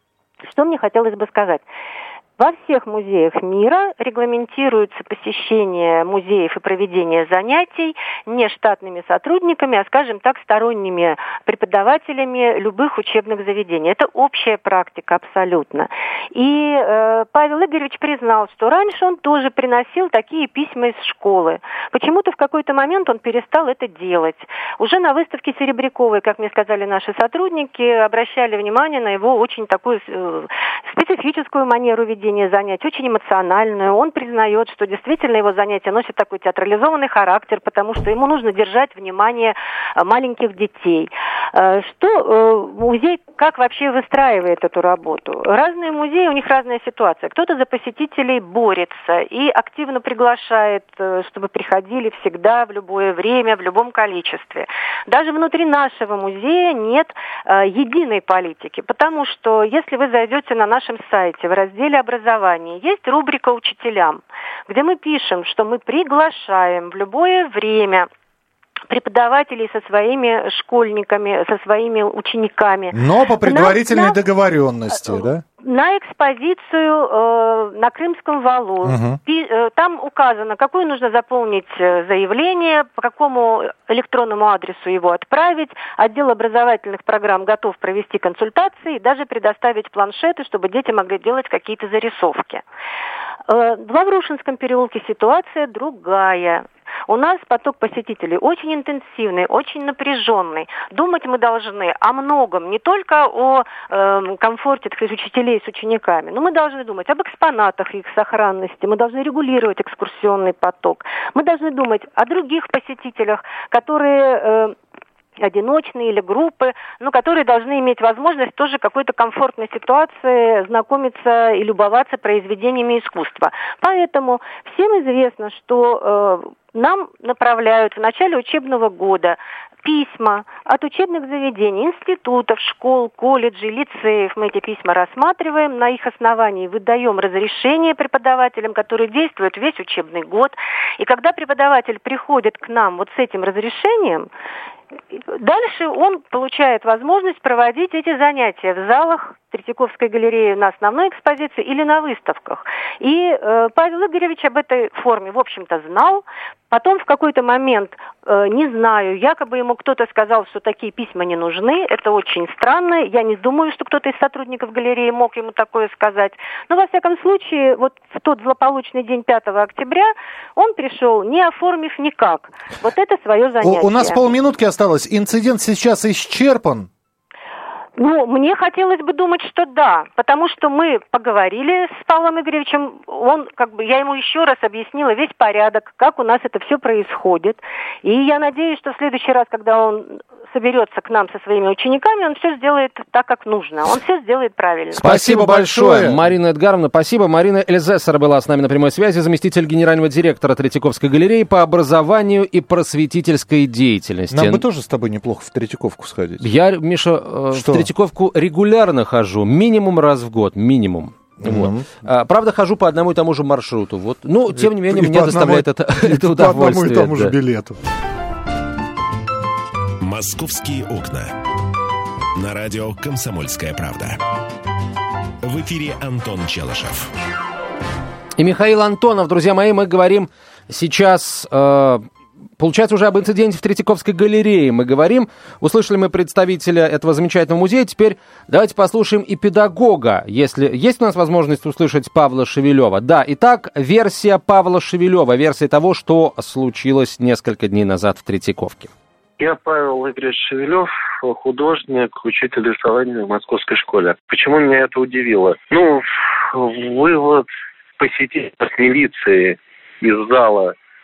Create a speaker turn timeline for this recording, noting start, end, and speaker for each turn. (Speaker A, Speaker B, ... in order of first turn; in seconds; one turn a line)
Speaker A: 0.5-1.6
Speaker A: 2.4-68.1
Speaker A: 68.9-74.2
Speaker B: 72.9-75.4
Speaker A: 75.6-92.6
Speaker B: 78.8-79.2
Speaker A: 93.5-114.7
Speaker A: 115.4-144.3
Speaker A: 145.3-174.2
Speaker B: 173.6-176.9
Speaker A: 178.0-195.0
Speaker B: 194.9-196.2
Speaker C: 195.0-204.6
Speaker B: 204.3-206.5
Speaker C: 206.4-217.3
Speaker B: 207.5-207.9
Speaker B: 211.4-211.9
Speaker B: 214.5-217.8
Speaker D: 220.0-221.3
Speaker D: 222.3-224.2
Speaker D: 225.4-227.1
Speaker C: 228.4-232.1
Speaker C: 232.6-248.9
Speaker E: 249.4-257.4
Speaker E: 258.0-260.7